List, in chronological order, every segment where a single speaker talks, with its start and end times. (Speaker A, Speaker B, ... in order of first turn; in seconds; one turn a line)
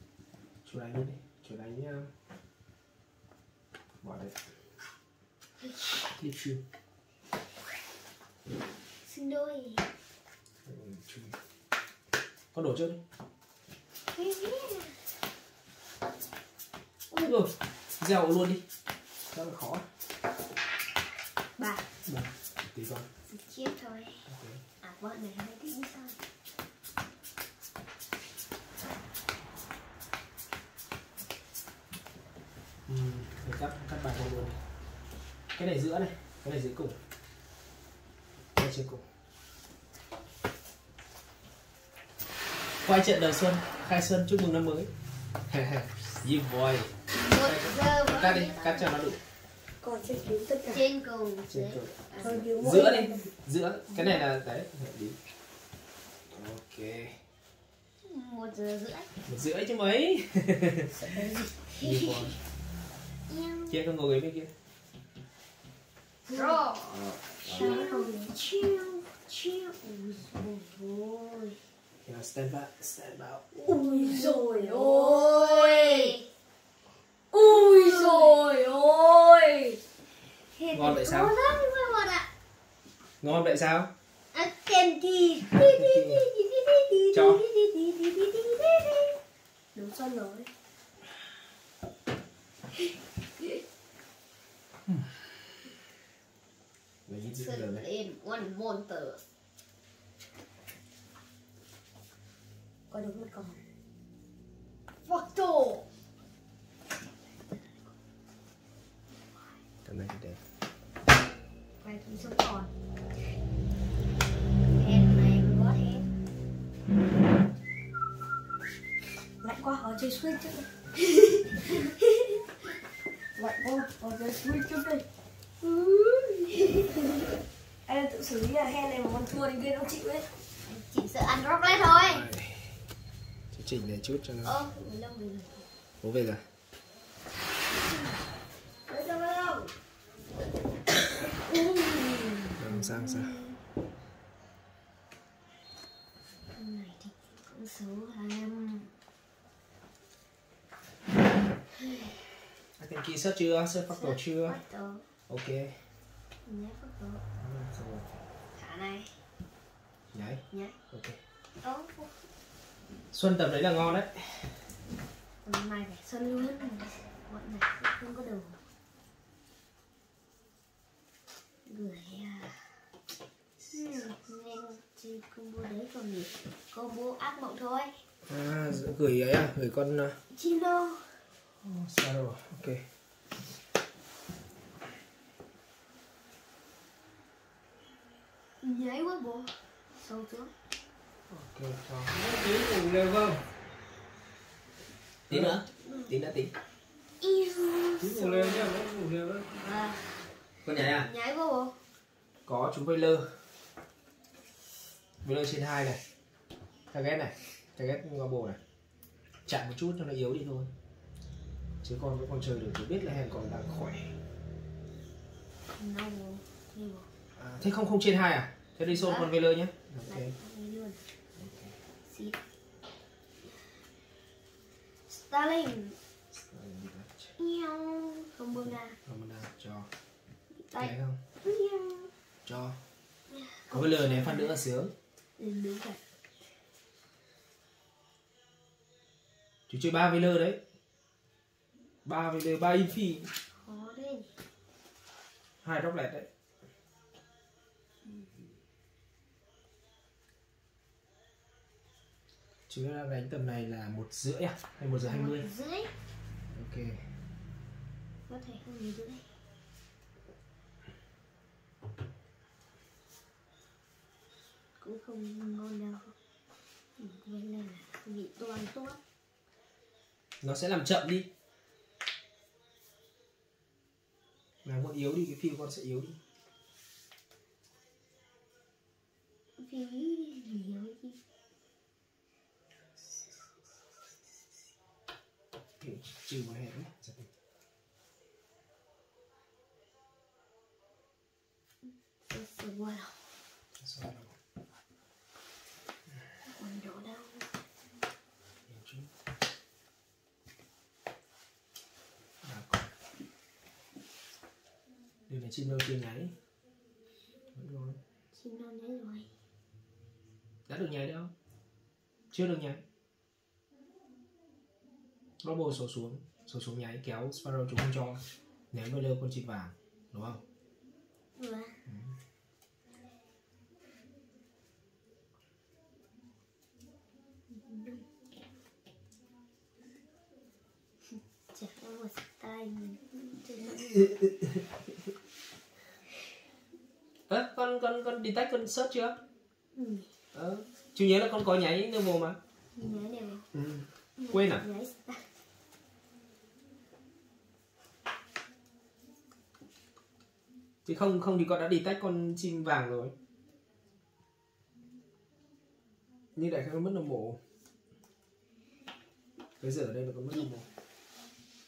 Speaker A: 0.6-2.1
Speaker A: 4.0-4.4
Speaker B: 5.6-6.0
Speaker A: 6.1-6.6
Speaker B: 9.0-9.9
Speaker A: 10.7-11.4
Speaker A: 12.5-13.0
Speaker B: 14.0-15.1
Speaker A: 17.1-18.6
Speaker A: 19.3-19.9
Speaker B: 21.6-21.9
Speaker A: 22.1-23.1
Speaker B: 23.3-24.3
Speaker A: 24.3-24.6
Speaker B: 24.8-26.2
Speaker A: 32.9-34.6
Speaker A: 35.5-37.0
Speaker A: 38.5-39.0
Speaker A: 42.8-44.9
Speaker A: 45.5-49.2
Speaker B: 47.1-49.0
Speaker C: 49.8-50.9
Speaker B: 50.7-52.4
Speaker A: 51.5-55.2
Speaker C: 52.1-53.2
Speaker A: 56.3-57.2
Speaker B: 58.0-59.1
Speaker A: 59.2-60.9
Speaker C: 61.0-61.5
Speaker B: 61.5-62.4
Speaker A: 61.8-62.4
Speaker B: 63.3-63.8
Speaker A: 63.7-64.5
Speaker B: 66.3-71.6
Speaker C: 66.3-66.6
Speaker A: 66.9-67.9
Speaker C: 67.4-68.4
Speaker A: 72.0-73.4
Speaker B: 73.5-76.2
Speaker C: 73.7-76.2
Speaker C: 77.3-79.8
Speaker B: 77.3-78.5
Speaker B: 80.5-82.3
Speaker A: 80.7-81.4
Speaker A: 83.2-83.9
Speaker B: 84.3-89.2
Speaker A: 85.5-86.2
Speaker A: 87.1-87.4
Speaker B: 89.7-90.5
Speaker A: 97.1-97.8
Speaker B: 97.4-99.2
Speaker B: 102.9-103.6
Speaker B: 105.0-105.8
Speaker A: 109.8-110.4
Speaker B: 111.8-112.7
Speaker B: 114.7-116.1
Speaker C: 119.4-120.7
Speaker B: 121.5-122.4
Speaker C: 123.3-125.0
Speaker B: 125.6-127.0
Speaker C: 127.9-130.3
Speaker B: 130.6-132.3
Speaker A: 132.0-132.8
Speaker A: 133.5-134.6
Speaker B: 134.4-135.7
Speaker A: 136.0-136.4
Speaker C: 138.9-139.7
Speaker B: 139.0-139.5
Speaker B: 141.2-143.5
Speaker A: 142.5-143.4
Speaker B: 146.5-148.9
Speaker B: 151.7-152.2
Speaker A: 152.8-154.6
Speaker B: 153.9-155.1
Speaker A: 155.3-155.8
Speaker B: 156.4-157.2
Speaker A: 157.4-158.2
Speaker B: 158.5-159.2
Speaker A: 160.1-161.2
Speaker B: 160.5-160.8
Speaker B: 161.6-162.2
Speaker A: 163.1-164.6
Speaker B: 165.4-168.6
Speaker B: 171.7-172.8
Speaker B: 173.6-178.0
Speaker A: 178.2-180.2
Speaker B: 180.3-181.1
Speaker A: 181.6-182.9
Speaker B: 188.6-190.5
Speaker A: 191.3-193.4
Speaker A: 195.3-196.5
Speaker B: 195.4-196.1
Speaker B: 197.2-198.7
Speaker A: 198.0-199.4
Speaker B: 199.5-201.8
Speaker A: 200.6-201.1
Speaker A: 202.4-203.4
Speaker A: 205.2-206.0
Speaker A: 206.9-208.6
Speaker A: 209.4-210.7
Speaker A: 211.8-214.1
Speaker B: 215.7-217.1
Speaker A: 217.3-220.3
Speaker B: 218.9-219.3
Speaker B: 220.1-221.0
Speaker A: 221.3-221.8
Speaker B: 222.0-222.4
Speaker B: 225.1-226.0
Speaker A: 226.3-227.3
Speaker B: 227.4-229.0
Speaker A: 229.0-229.9
Speaker B: 230.6-232.1
Speaker A: 230.8-231.2
Speaker A: 232.4-232.8
Speaker B: 233.3-234.6
Speaker A: 233.7-234.9
Speaker B: 235.4-236.0
Speaker A: 239.7-240.6
Speaker A: 242.0-243.3
Speaker B: 243.5-244.3
Speaker A: 245.6-246.3
Speaker B: 248.0-248.3
Speaker A: 252.7-255.5
Speaker B: 255.0-255.9
Speaker A: 256.5-257.1
Speaker B: 258.3-259.2
Speaker B: 264.8-266.1
Speaker B: 267.0-269.0
Speaker A: 270.4-271.3
Speaker A: 274.6-276.2
Speaker B: 279.6-281.2
Speaker A: 285.8-287.3
Speaker B: 292.2-293.3
Speaker A: 293.7-294.4
Speaker B: 296.5-297.5
Speaker A: 298.7-299.1
Speaker A: 302.4-302.8
Speaker A: 305.3-306.3
Speaker A: 307.6-308.0
Speaker B: 308.3-309.3
Speaker A: 310.7-311.3
Speaker A: 312.3-312.8
Speaker A: 315.4-320.4
Speaker B: 321.4-321.8
Speaker A: 321.9-322.1
Speaker B: 327.5-328.1
Speaker B: 331.5-334.0
Speaker A: 333.7-334.6
Speaker A: 337.3-339.2
Speaker B: 339.7-340.1
Speaker A: 340.3-342.4
Speaker B: 342.7-343.5
Speaker A: 343.5-344.6
Speaker B: 344.2-345.3
Speaker A: 350.9-353.1
Speaker A: 356.4-357.4
Speaker A: 359.6-360.7